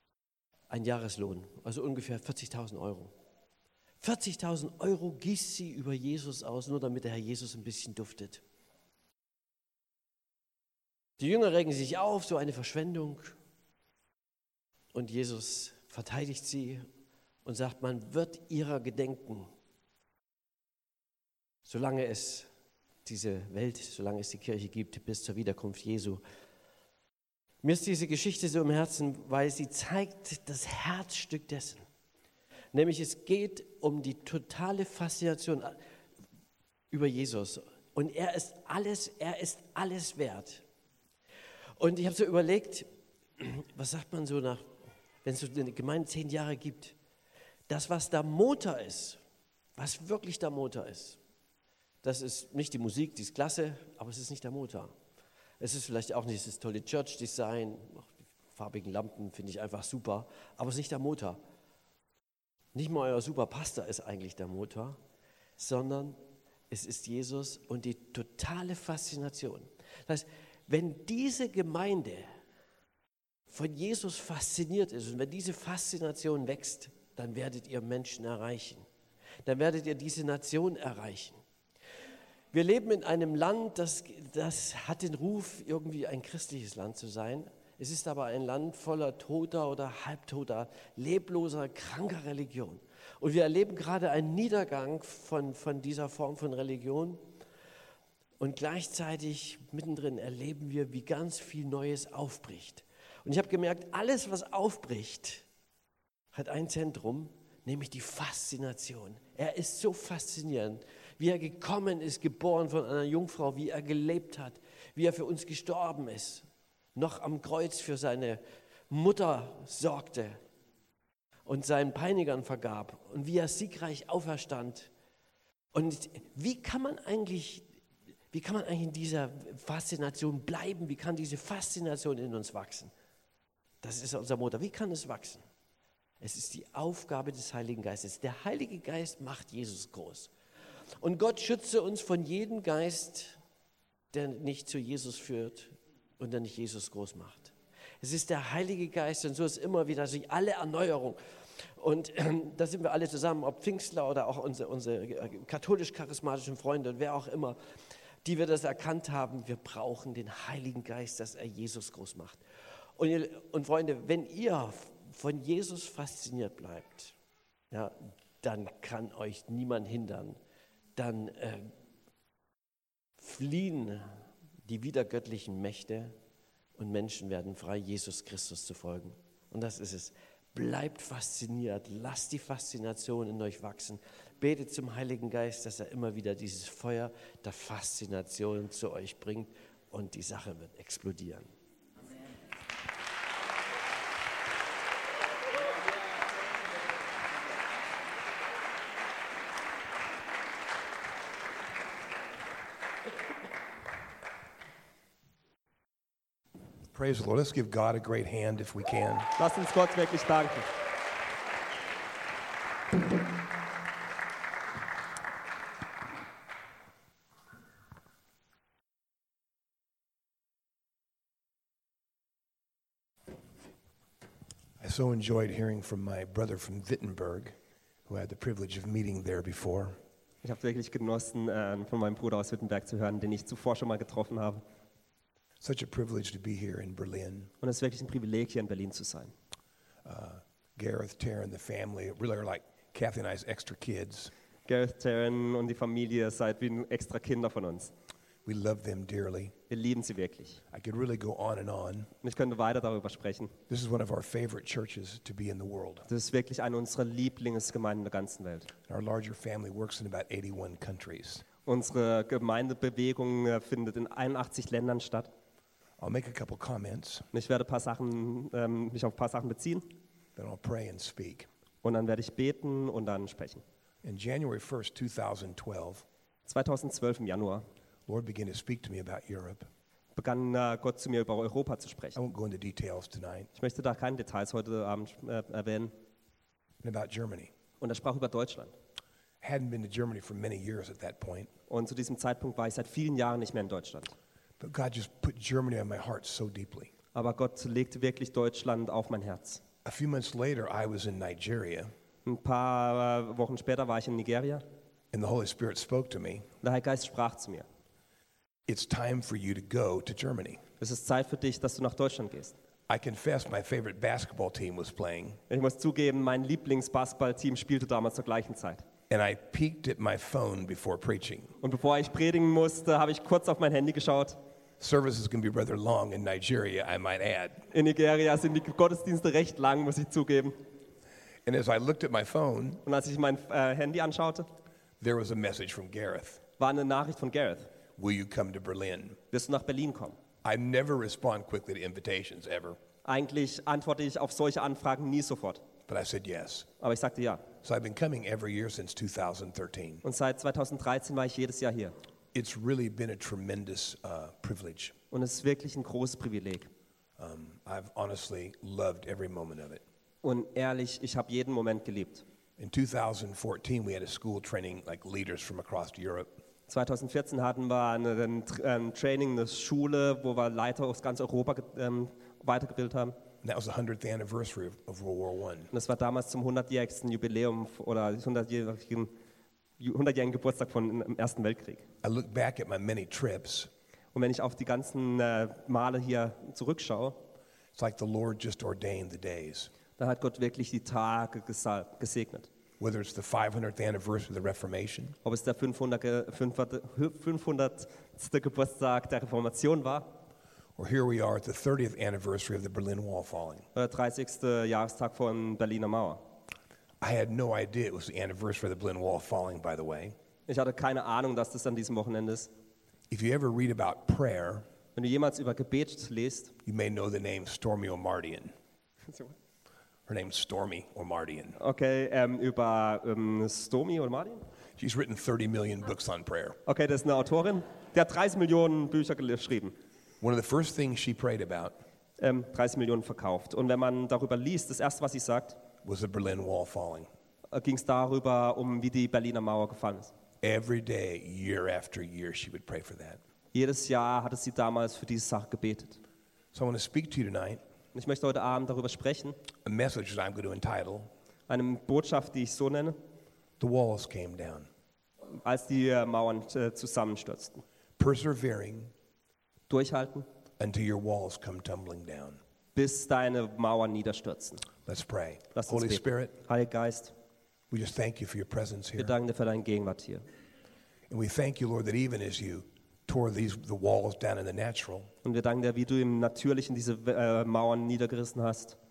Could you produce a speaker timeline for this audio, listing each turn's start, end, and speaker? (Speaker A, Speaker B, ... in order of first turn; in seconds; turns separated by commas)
Speaker A: 0.7-3.1, Speaker A: 4.0-8.4, Speaker A: 11.2-13.4, Speaker A: 14.9-16.9, Speaker A: 17.4-19.5, Speaker A: 21.6-22.5, Speaker A: 23.0-26.2, Speaker A: 27.6-31.9, Speaker A: 32.7-35.8, Speaker A: 36.9-40.6, Speaker A: 41.8-44.7, Speaker A: 45.2-47.0, Speaker A: 47.7-49.2, Speaker A: 49.8-51.2, Speaker A: 52.0-54.9, Speaker A: 55.6-61.4, Speaker A: 62.7-65.0, Speaker A: 65.6-66.2, Speaker A: 66.7-72.3, Speaker A: 73.5-78.9, Speaker A: 79.4-81.4, Speaker A: 82.5-97.3, Speaker A: 98.4-105.4, Speaker A: 106.3-120.4, Speaker A: 121.5-124.9, Speaker A: 125.7-127.7, Speaker A: 128.3-132.9, Speaker A: 133.8-135.4, Speaker A: 136.2-140.3, Speaker A: 141.0-143.4, Speaker A: 144.1-162.4, Speaker A: 163.0-167.1, Speaker A: 167.7-170.4, Speaker A: 170.9-171.7, Speaker A: 173.2-176.2, Speaker A: 176.8-191.5, Speaker B: 206.9-209.3, Speaker C: 209.4-210.7, Speaker B: 224.8-227.6, Speaker B: 228.1-230.0, Speaker C: 230.4-234.6, Speaker B: 235.6-237.5, Speaker C: 237.6-239.3, Speaker B: 240.0-244.3, Speaker C: 244.7-247.9, Speaker B: 248.4-249.5, Speaker C: 249.7-250.6, Speaker B: 250.7-252.1, Speaker C: 252.2-253.5, Speaker B: 253.7-256.1, Speaker C: 256.1-258.7, Speaker B: 258.9-261.4, Speaker C: 261.6-265.3, Speaker B: 266.0-267.3, Speaker C: 267.3-269.9, Speaker B: 270.4-271.5, Speaker C: 271.8-273.6, Speaker B: 274.0-276.0, Speaker C: 276.4-277.6, Speaker B: 278.1-279.7, Speaker C: 280.1-282.2, Speaker B: 282.1-283.5, Speaker C: 283.6-285.9, Speaker B: 286.8-287.5, Speaker C: 287.8-288.7, Speaker B: 289.4-291.5, Speaker C: 291.7-294.1, Speaker B: 294.6-296.9, Speaker C: 297.1-299.6, Speaker B: 299.8-301.9, Speaker C: 302.2-304.6, Speaker B: 305.1-306.5, Speaker C: 306.6-307.6, Speaker B: 308.7-310.6, Speaker C: 310.8-312.6, Speaker B: 312.9-315.4, Speaker C: 315.5-318.8, Speaker B: 319.1-321.5, Speaker C: 321.6-324.4, Speaker B: 324.8-327.6, Speaker C: 327.7-330.6, Speaker B: 331.4-332.8, Speaker C: 332.8-334.5, Speaker B: 335.0-336.4, Speaker C: 336.6-337.7, Speaker B: 338.0-339.2, Speaker C: 339.3-340.2, Speaker B: 340.4-342.8, Speaker C: 343.0-345.6, Speaker B: 345.9-346.7, Speaker C: 346.8-347.5, Speaker B: 347.6-350.0, Speaker C: 350.0-351.9, Speaker B: 352.3-354.9, Speaker C: 355.1-356.7, Speaker B: 357.2-359.8, Speaker C: 360.2-362.2, Speaker B: 362.6-366.3, Speaker C: 366.7-373.1, Speaker B: 373.4-375.7, Speaker C: 375.7-379.1, Speaker C: 379.8-381.8, Speaker B: 382.0-383.7, Speaker C: 384.1-387.2, Speaker B: 387.7-389.7, Speaker C: 390.0-392.5, Speaker B: 392.8-395.1, Speaker C: 395.2-400.1, Speaker B: 400.8-403.7, Speaker C: 403.7-406.2, Speaker B: 407.0-410.1, Speaker C: 410.5-412.5, Speaker B: 413.1-414.6, Speaker C: 414.9-416.5, Speaker B: 416.6-418.5, Speaker B: 420.1-421.6, Speaker C: 421.6-424.4, Speaker B: 424.8-426.6, Speaker C: 426.6-429.7, Speaker B: 430.2-431.7, Speaker C: 432.2-435.6, Speaker B: 435.8-437.1, Speaker C: 437.5-440.1, Speaker B: 440.4-443.2, Speaker C: 443.5-446.0, Speaker B: 446.5-447.6, Speaker C: 447.9-449.3, Speaker B: 449.6-451.1, Speaker C: 451.5-453.0, Speaker B: 453.6-454.7, Speaker C: 455.4-457.6, Speaker B: 458.0-458.9, Speaker C: 459.7-460.2, Speaker B: 460.6-462.4, Speaker C: 462.7-464.7, Speaker B: 464.8-466.3, Speaker C: 465.5-467.1, Speaker B: 467.7-469.1, Speaker C: 469.0-470.2, Speaker B: 471.1-475.1, Speaker C: 475.2-478.8